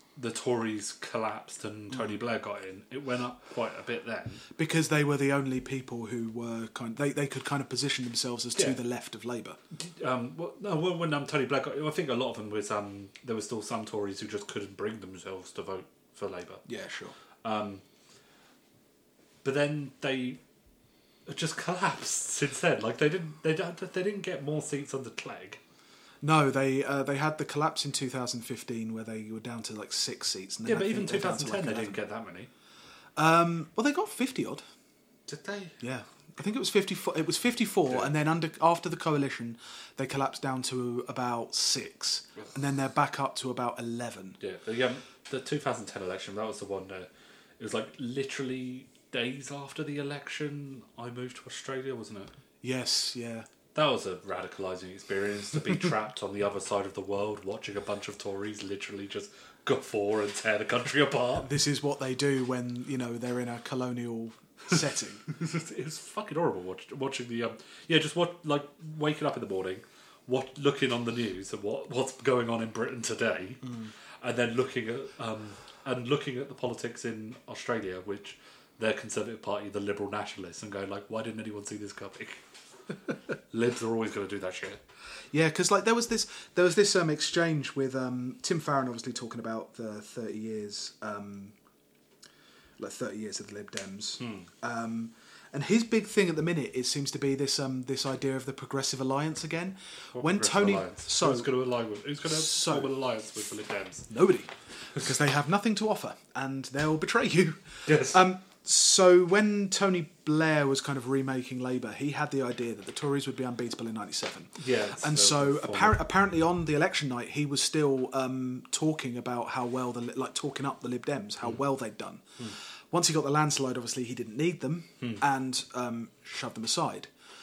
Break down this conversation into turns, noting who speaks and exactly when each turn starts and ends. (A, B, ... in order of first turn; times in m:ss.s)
0:00.2-0:04.4 A
0:04.6-0:09.6 B
0:09.7-0:16.6 A
0:16.7-0:17.2 B
0:17.4-0:17.8 A
0:19.4-0:20.4 A
0:21.3-0:25.6 A
0:26.2-0:32.0 B
0:30.6-0:32.5 A
0:33.2-0:34.6 B
0:35.3-0:35.8 A
0:35.8-0:44.4 B
0:44.4-0:47.1 A
0:47.6-0:52.3 A
0:52.6-0:53.5 B
0:53.8-1:01.5 A
1:01.4-1:05.2 B
1:05.3-1:22.4 A
1:13.6-1:13.9 B
1:23.5-1:24.8 A
1:25.3-1:31.6 B
1:32.8-1:41.5 B
1:34.2-1:34.5 A
1:40.1-1:44.1 A
1:42.3-1:42.9 B
1:44.1-2:07.1 B
1:47.9-1:48.2 A
1:54.6-1:56.0 A